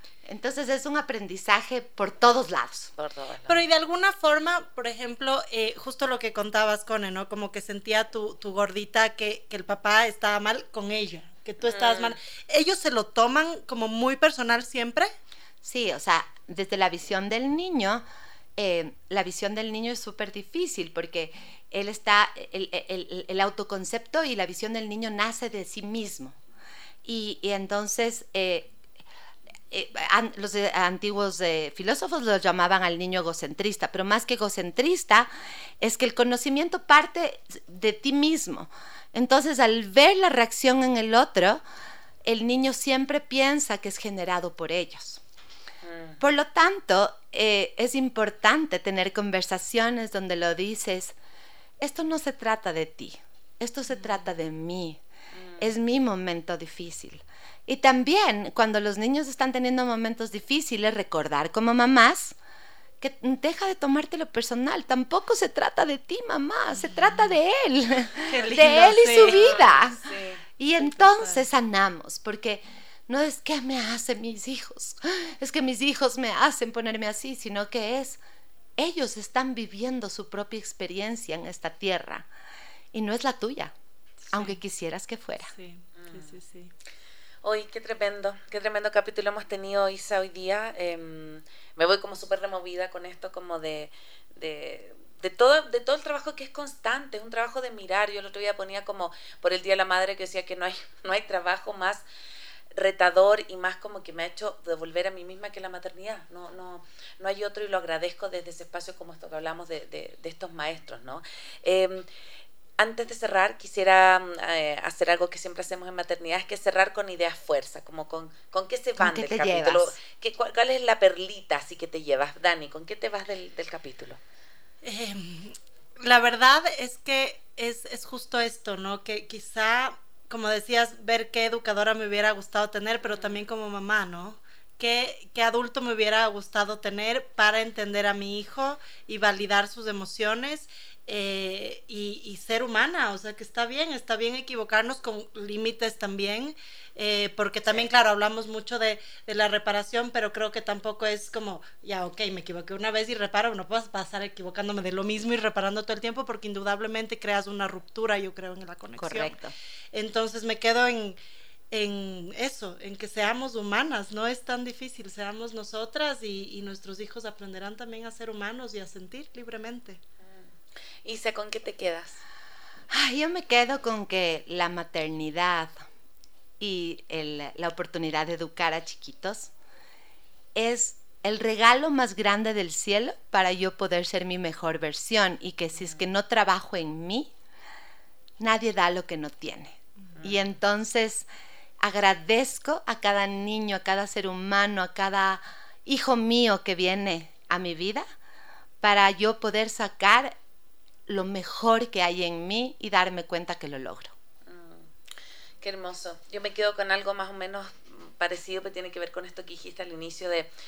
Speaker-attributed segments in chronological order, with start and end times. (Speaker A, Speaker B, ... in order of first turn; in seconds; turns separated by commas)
Speaker A: 0.2-2.9, Speaker B: 3.0-3.6, Speaker C: 3.5-15.1, Speaker B: 11.6-12.2, Speaker A: 15.6-18.0, Speaker A: 18.6-26.3, Speaker A: 27.0-28.7, Speaker A: 29.7-41.6, Speaker A: 42.2-45.2, Speaker B: 45.8-46.2, Speaker A: 46.2-51.1, Speaker A: 51.8-55.0, Speaker B: 55.3-55.7, Speaker A: 55.6-62.3, Speaker A: 63.0-70.0, Speaker C: 68.2-69.7, Speaker B: 69.2-70.4, Speaker A: 70.6-78.2, Speaker C: 71.0-71.4, Speaker A: 78.8-82.3, Speaker A: 82.9-83.7, Speaker C: 84.2-84.6, Speaker A: 84.3-85.5, Speaker C: 85.5-86.7, Speaker B: 86.0-86.3, Speaker B: 87.4-102.0, Speaker B: 102.7-112.1, Speaker B: 112.8-124.2, Speaker A: 119.0-120.0, Speaker C: 124.8-159.3, Speaker A: 159.0-159.5, Speaker C: 159.9-161.2, Speaker C: 161.7-170.0, Speaker B: 171.0-172.2, Speaker A: 172.9-175.8, Speaker A: 176.6-179.5, Speaker A: 180.5-187.3, Speaker A: 188.4-191.3, Speaker A: 191.8-198.0, Speaker A: 198.8-200.3, Speaker A: 201.1-204.1, Speaker B: 204.5-204.8, Speaker B: 205.6-210.5